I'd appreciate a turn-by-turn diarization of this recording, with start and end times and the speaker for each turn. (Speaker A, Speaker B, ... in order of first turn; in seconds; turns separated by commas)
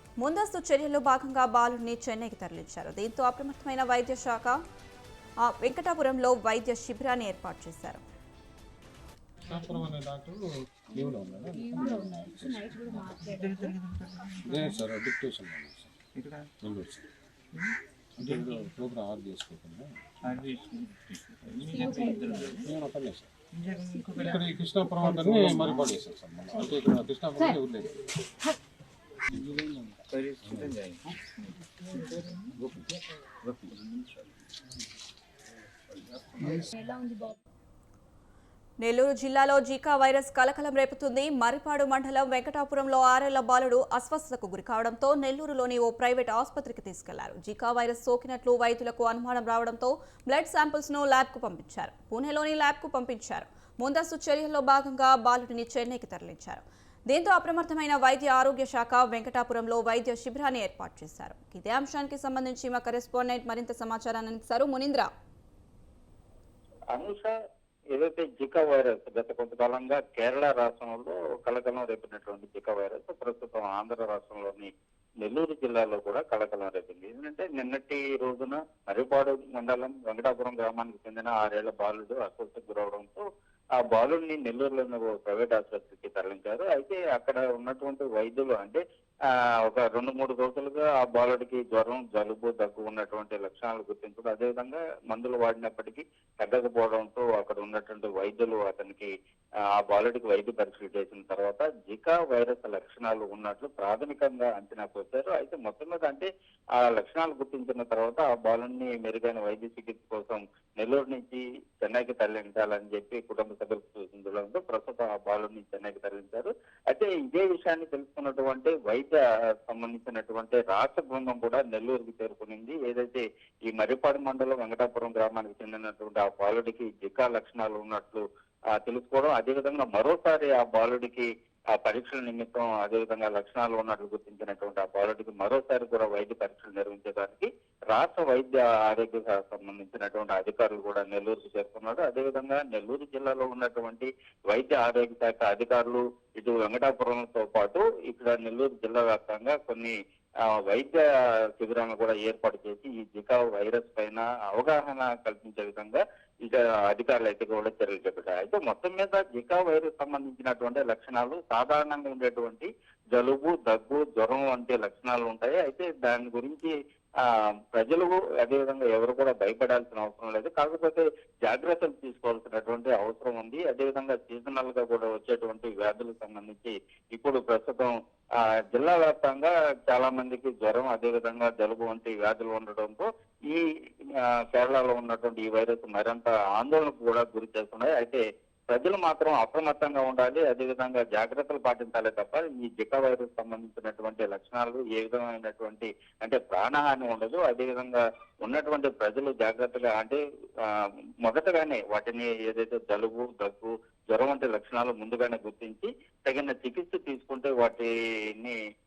Speaker A: 0.2-4.6, Speaker A: 5.4-8.0, Speaker B: 9.4-10.4, Speaker C: 10.9-13.8, Speaker B: 10.9-12.8, Speaker D: 12.8-14.8, Speaker B: 14.5-15.9, Speaker D: 16.1-16.5, Speaker B: 16.6-17.1, Speaker D: 17.5-18.7, Speaker B: 18.2-20.0, Speaker D: 20.2-22.7, Speaker C: 21.7-22.6, Speaker B: 22.6-23.3, Speaker D: 23.5-25.9, Speaker B: 24.1-28.0, Speaker B: 29.3-29.8, Speaker D: 30.1-34.3, Speaker B: 30.4-30.7, Speaker D: 36.0-36.6, Speaker C: 36.5-37.4, Speaker A: 38.8-65.1, Speaker E: 66.9-67.3, Speaker E: 67.9-74.7, Speaker E: 75.2-83.2, Speaker E: 83.8-88.8, Speaker E: 89.7-99.1, Speaker E: 99.8-106.3, Speaker E: 106.8-128.2, Speaker E: 128.8-149.9, Speaker E: 150.5-151.0, Speaker E: 151.6-166.7, Speaker E: 167.2-177.9, Speaker E: 178.7-183.6, Speaker E: 184.2-200.7, Speaker E: 201.2-208.6